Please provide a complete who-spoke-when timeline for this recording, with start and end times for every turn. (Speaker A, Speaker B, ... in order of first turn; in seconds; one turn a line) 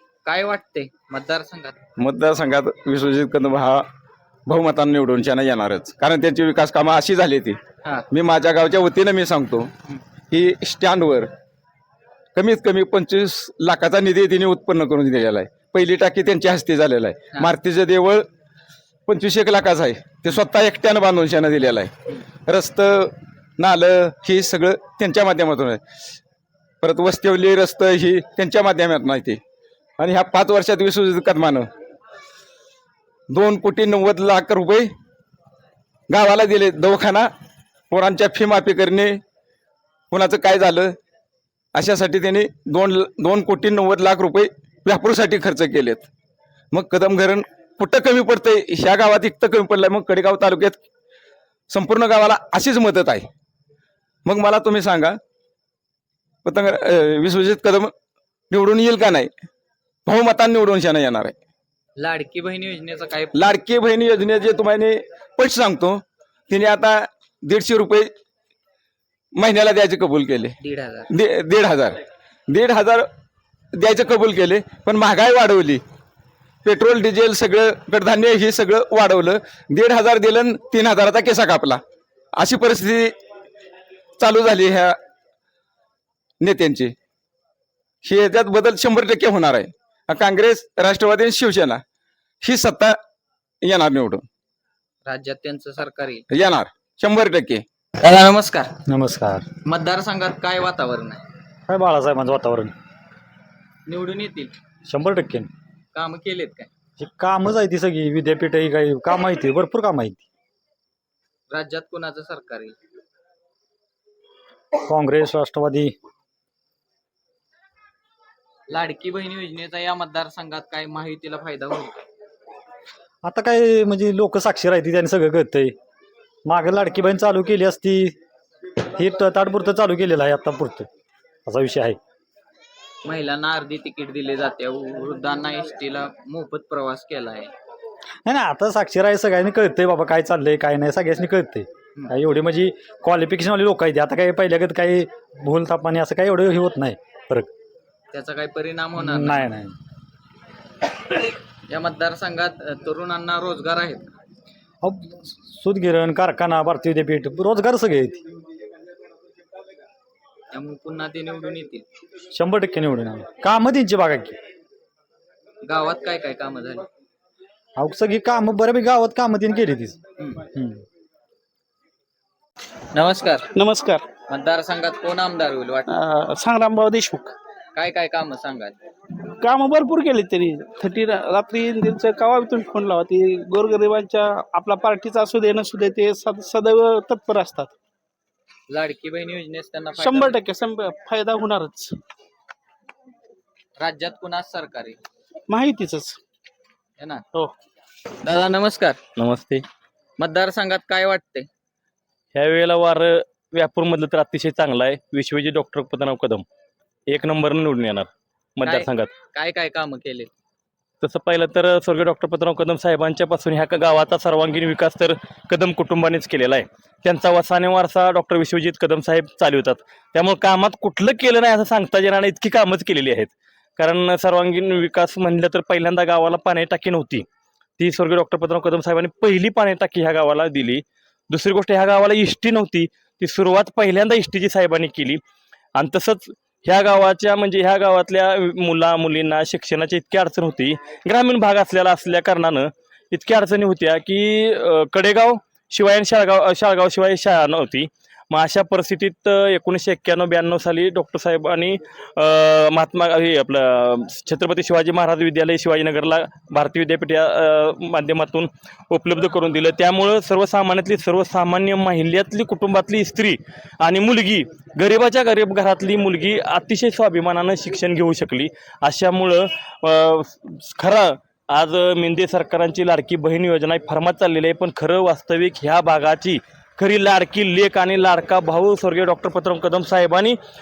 Speaker A: 0.2-1.8
Speaker B: 2.0-3.8
Speaker B: 4.5-7.6
Speaker B: 8.1-9.7
Speaker B: 10.3-11.3
Speaker B: 12.4-18.3
Speaker B: 19.1-21.9
Speaker B: 22.5-25.8
Speaker B: 26.8-29.4
Speaker B: 30.0-31.7
Speaker B: 33.3-34.9
Speaker B: 36.1-37.3
Speaker B: 37.9-39.2
Speaker B: 40.1-40.9
Speaker B: 41.7-46.1
Speaker B: 46.7-50.8
Speaker B: 51.7-53.3
Speaker B: 54.3-55.2
Speaker B: 56.5-57.9
Speaker B: 58.5-59.3
Speaker B: 60.1-61.4
Speaker A: 62.0-63.4
Speaker B: 63.4-68.1
Speaker B: 69.4-70.5
Speaker A: 70.6-71.1
Speaker B: 71.1-72.0
Speaker B: 72.5-73.1
Speaker B: 73.8-75.8
Speaker B: 76.7-81.8
Speaker B: 82.4-83.1
Speaker B: 84.2-85.0
Speaker B: 86.4-86.9
Speaker B: 88.0-91.8
Speaker B: 92.4-93.0
Speaker B: 93.6-94.2
Speaker A: 95.0-96.2
Speaker B: 96.3-97.6
Speaker A: 98.0-98.7
Speaker C: 98.9-99.5
Speaker A: 99.7-101.2
Speaker C: 101.7-102.7
Speaker A: 103.9-104.5
Speaker C: 104.9-105.5
Speaker A: 105.9-106.7
Speaker C: 107.0-110.2
Speaker A: 111.5-112.8
Speaker C: 114.9-115.9
Speaker A: 118.7-122.0
Speaker C: 123.2-125.7
Speaker C: 126.5-128.2
Speaker C: 128.8-130.9
Speaker C: 131.5-132.0
Speaker A: 133.1-137.5
Speaker C: 138.3-147.5
Speaker A: 148.1-149.5
Speaker C: 149.0-149.7
Speaker A: 151.7-154.1
Speaker C: 154.8-158.2
Speaker A: 160.5-161.8
Speaker C: 162.3-164.4
Speaker A: 165.7-166.8
Speaker C: 167.8-170.0
Speaker C: 170.5-170.8
Speaker A: 172.9-173.5
Speaker D: 173.6-174.0
Speaker A: 174.3-175.9
Speaker D: 175.9-177.3
Speaker A: 177.8-178.7
Speaker D: 179.4-187.7
Speaker A: 188.7-190.4
Speaker D: 189.9-191.9
Speaker A: 193.8-195.0
Speaker D: 195.5-196.2
Speaker A: 198.2-199.0
Speaker E: 199.2-199.6
Speaker A: 200.2-201.5
Speaker E: 202.3-206.4
Speaker E: 207.1-209.1
Speaker A: 208.6-210.3
Speaker E: 211.0-227.2
Speaker E: 227.8-235.2
Speaker E: 235.8-280.4